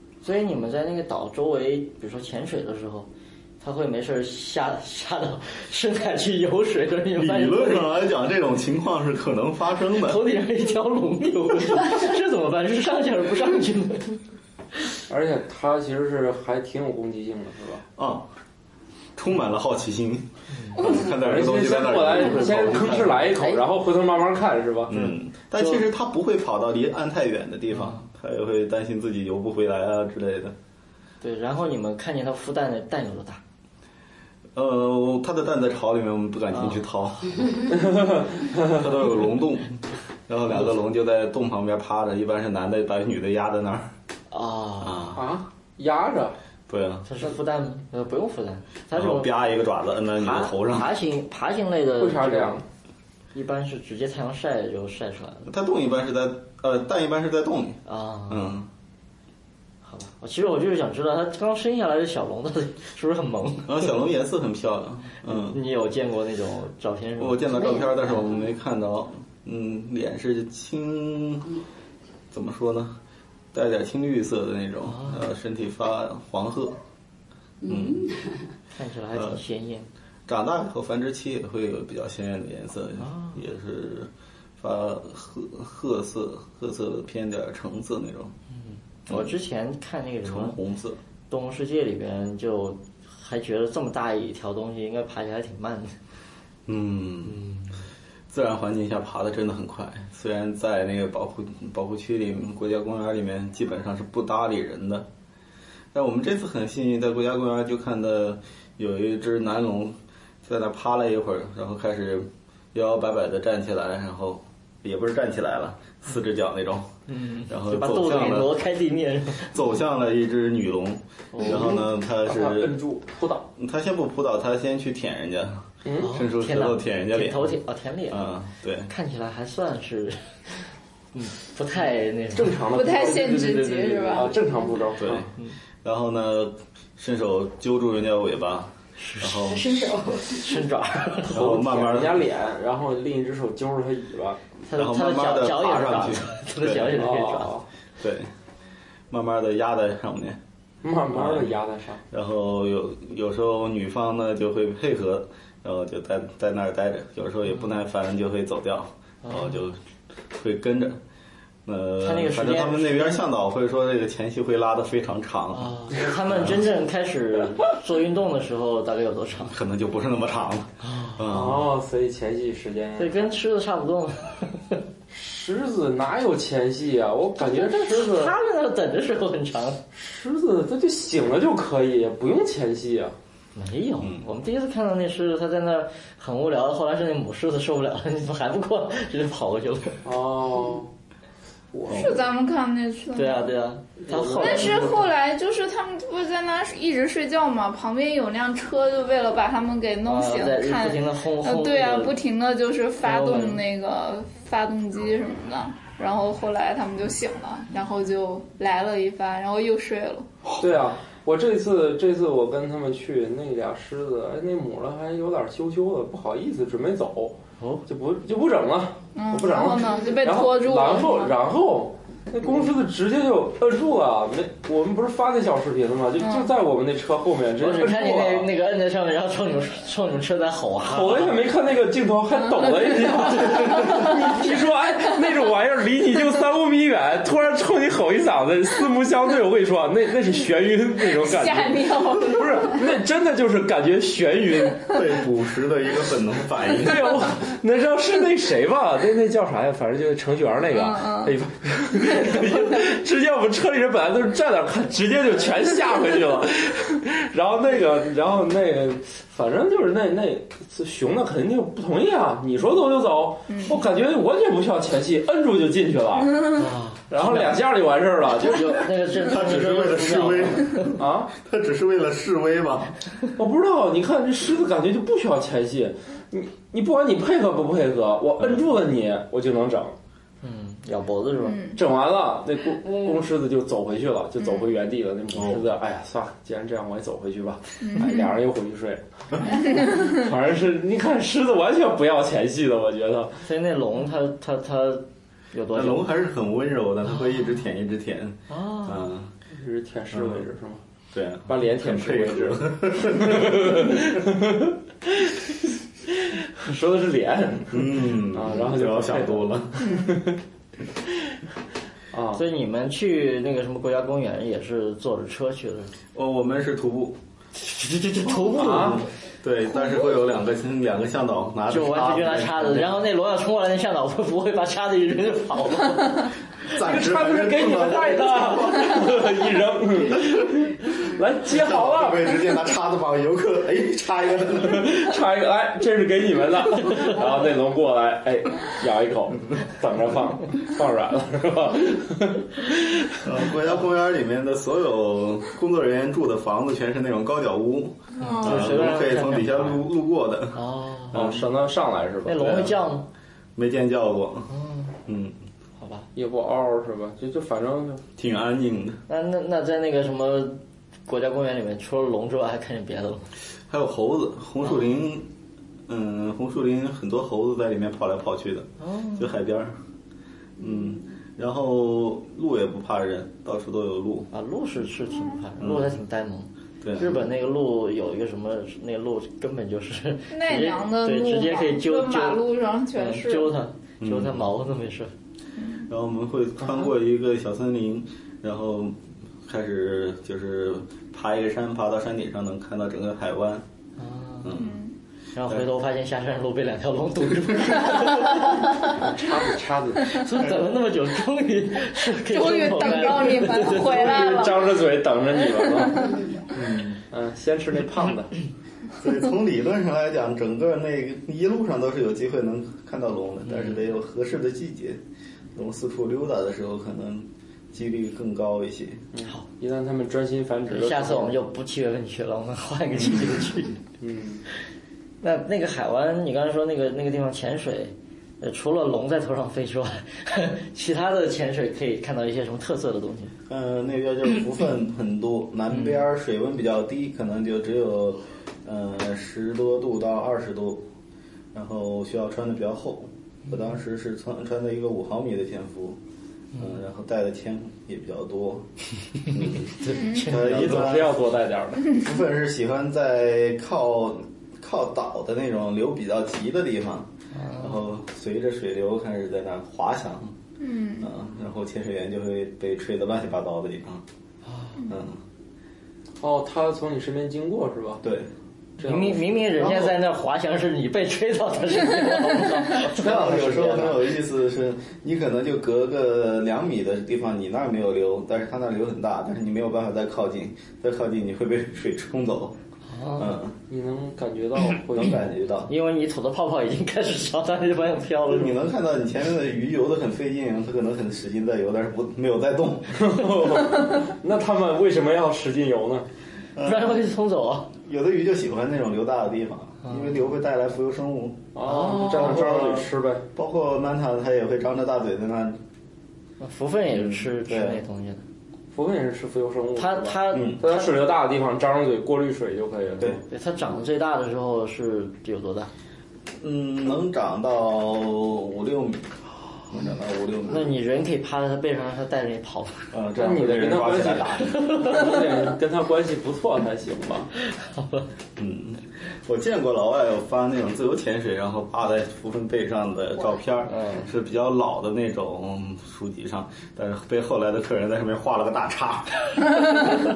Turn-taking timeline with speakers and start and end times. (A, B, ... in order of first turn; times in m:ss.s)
0:00.2-0:03.1 A
0:03.6-0:07.9 A
0:07.2-0:10.3 B
0:10.0-0:14.2 A
0:15.1-0:17.8 C
0:18.0-0:18.3 B
0:19.2-0:23.4 B
0:21.1-0:25.1 C
0:24.9-0:30.6 B
0:25.6-0:25.8 A
0:27.8-0:28.0 A
0:31.2-0:33.4 A
0:34.6-0:37.7 B
0:36.5-0:37.5 A
0:37.7-0:38.8 C
0:38.6-0:43.9 B
0:44.3-0:45.2 A
0:44.8-0:45.3 B
0:45.2-0:46.4 C
0:46.7-0:47.1 B
0:47.1-0:49.5 A
0:48.9-0:50.9 B
0:50.2-0:52.6 A
0:52.0-0:52.6 C
0:53.3-0:55.5 A
0:55.5-0:58.7 B
0:57.9-0:58.6 A
0:59.8-1:03.9 A
1:03.7-1:05.6 B
1:05.2-1:07.9 A
1:07.2-1:11.5 B
1:07.6-1:08.2 D
1:12.3-1:13.0 B
1:13.5-1:16.8 B
1:14.9-1:15.3 A
1:17.6-1:18.5 D
1:17.7-1:18.1 B
1:18.7-1:19.9 A
1:19.1-1:19.4 B
1:20.3-1:28.3 B
1:23.0-1:23.4 A
1:28.5-1:30.6 A
1:30.2-1:31.0 B
1:31.3-1:36.0 A
1:36.7-1:37.5 B
1:37.3-1:37.7 A
1:38.3-1:45.1 B
1:45.9-1:56.9 B
1:57.1-1:59.5 A
1:57.5-1:58.6 B
1:59.4-2:02.8 B
2:01.3-2:01.8 A
2:01.4-2:03.5 C
2:03.6-2:07.6 B
2:05.8-2:06.2 C
2:06.0-2:08.2 A
2:08.1-2:08.9 B
2:08.9-2:12.6 A
2:12.3-2:15.3 C
2:12.7-2:14.3 E
2:15.0-2:15.3 B
2:15.8-2:19.8 B
2:19.0-2:19.6 A
2:19.5-2:20.6 D
2:20.3-2:21.4 A
2:21.2-2:24.4 C
2:21.3-2:22.2 B
2:24.7-2:27.6 A
2:24.7-2:27.1 B
2:26.9-2:27.6 C
2:28.0-2:28.3 B
2:29.1-2:30.4 B
2:30.8-2:32.0 C
2:31.1-2:31.5 B
2:32.1-2:39.8 B
2:39.2-2:39.6 A
2:40.3-2:41.0 B
2:41.6-2:46.6 B
2:42.0-2:43.2 A
2:45.5-2:49.5 A
2:49.4-2:51.7 B
2:50.8-2:51.3 A
2:51.3-2:53.2 C
2:53.0-2:54.8 A
2:55.1-2:58.3 C
2:57.4-2:59.8 A
2:59.9-3:03.2 C
3:03.6-3:10.0 A
3:04.0-3:04.3 B
3:10.0-3:10.9 C
3:11.7-3:12.2 C
3:11.9-3:13.5 E
3:13.1-3:15.1 A
3:14.0-3:14.9 C
3:14.3-3:30.3 E
3:20.1-3:22.2 A
3:23.0-3:23.6 A
3:30.6-3:48.5 C
3:37.6-3:37.8 A
3:39.2-3:41.3 E
3:46.2-3:46.5 E
3:47.6-3:51.4 A
3:50.8-4:05.0 C
3:53.1-3:54.1 E
4:01.1-4:02.8 E
4:04.9-4:07.3 B
4:06.7-4:26.5 C
4:10.8-4:11.3 E
4:23.5-4:23.8 E
4:26.6-4:27.6 A
4:27.1-4:28.8 C
4:28.4-4:31.0 A
4:29.2-4:33.0 B
4:30.8-4:31.3 C
4:33.4-4:40.0 C
4:40.4-4:41.6 A
4:41.4-4:41.8 E
4:41.8-4:53.4 C
4:44.4-4:44.7 E
4:45.4-4:45.6 B
4:47.8-4:48.3 E
4:49.5-4:50.3 E
4:53.5-4:56.1 A
4:55.7-4:59.3 B
4:58.5-4:59.1 A
4:59.5-5:00.8 C
5:00.1-5:00.5 B
5:01.1-5:04.0 B
5:01.5-5:05.6 C
5:06.1-5:10.4 C
5:07.7-5:09.9 B
5:09.8-5:10.1 E
5:12.1-5:12.4 C
5:12.4-5:15.9 A
5:16.1-5:17.2 B
5:17.6-5:19.1 A
5:18.4-5:19.1 C
5:19.4-5:23.0 B
5:21.7-5:26.3 A
5:26.7-5:29.1 B
5:26.8-5:32.5 C
5:31.5-5:35.1 B
5:34.7-5:43.2 C
5:43.2-5:51.4 B
5:48.2-5:48.7 E
5:48.2-5:49.8 A
5:50.5-5:51.2 A
5:51.1-5:52.6 C
5:52.2-5:53.1 A
5:52.3-5:52.8 B
5:53.6-5:54.5 B
5:54.5-5:55.0 A
5:55.1-5:55.4 B
5:55.8-5:56.1 A
5:56.2-5:58.0 C
5:58.2-5:59.0 B
5:59.1-6:03.3 A
6:03.7-6:05.3 B
6:05.9-6:09.8 B
6:08.8-6:09.3 A
6:10.6-6:14.3 B
6:14.3-6:25.1 A
6:15.6-6:16.0 B
6:16.8-6:17.2 B
6:20.3-6:23.6 E
6:24.0-6:24.4 B
6:25.6-6:25.8 E
6:25.9-6:33.6 B
6:34.0-6:34.6 A
6:34.4-6:34.8 B
6:34.6-6:34.9 E
6:35.4-6:38.6 A
6:39.0-6:40.2 C
6:40.1-6:44.3 A
6:42.3-6:44.8 E
6:43.7-6:46.2 C
6:45.8-6:46.3 E
6:46.5-6:47.0 B
6:47.1-6:48.4 C
6:49.0-6:55.0 B
6:53.5-6:53.8 A
6:55.5-6:59.0 B
6:59.1-7:01.4 C
7:00.7-7:03.8 A
7:04.0-7:04.4 C
7:05.2-7:13.3 A
7:13.5-7:20.8 B
7:15.7-7:16.0 A
7:21.5-7:26.0 B
7:26.6-7:28.7 B
7:29.3-7:31.2 B
7:29.3-7:31.0 A
7:29.9-7:30.3 E
7:30.3-7:31.9 C
7:31.9-7:40.4 B
7:37.3-7:37.9 A
7:40.6-7:41.1 E
7:41.0-7:44.0 B
7:44.5-7:44.8 A
7:44.9-7:45.2 B
7:46.2-7:48.0 C
7:48.0-7:48.3 B
7:48.8-7:49.4 C
7:48.8-7:54.1 A
7:49.6-7:49.9 B
7:52.7-8:02.6 B
8:02.9-8:03.4 A
8:03.2-8:03.6 B
8:03.7-8:05.3 C
8:04.9-8:05.7 B
8:05.7-8:08.6 A
8:08.3-8:13.1 B
8:12.9-8:16.1 C
8:16.6-8:17.0 B
8:16.6-8:17.7 A
8:17.8-8:25.6 B
8:19.8-8:20.2 A
8:21.6-8:23.3 C
8:21.6-8:22.5 A
8:26.4-8:28.2 A
8:26.9-8:27.8 B
8:28.7-8:33.2 C
8:29.8-8:30.9 A
8:30.3-8:30.6 B
8:33.3-8:35.7 A
8:36.4-8:39.1 B
8:39.7-8:40.7 B
8:40.5-8:42.9 A
8:42.9-8:44.7 B
8:43.2-8:47.3 C
8:44.6-8:45.2 A
8:47.4-8:48.1 A
8:48.4-8:59.4 B
8:53.7-8:54.1 A
8:59.5-9:00.0 E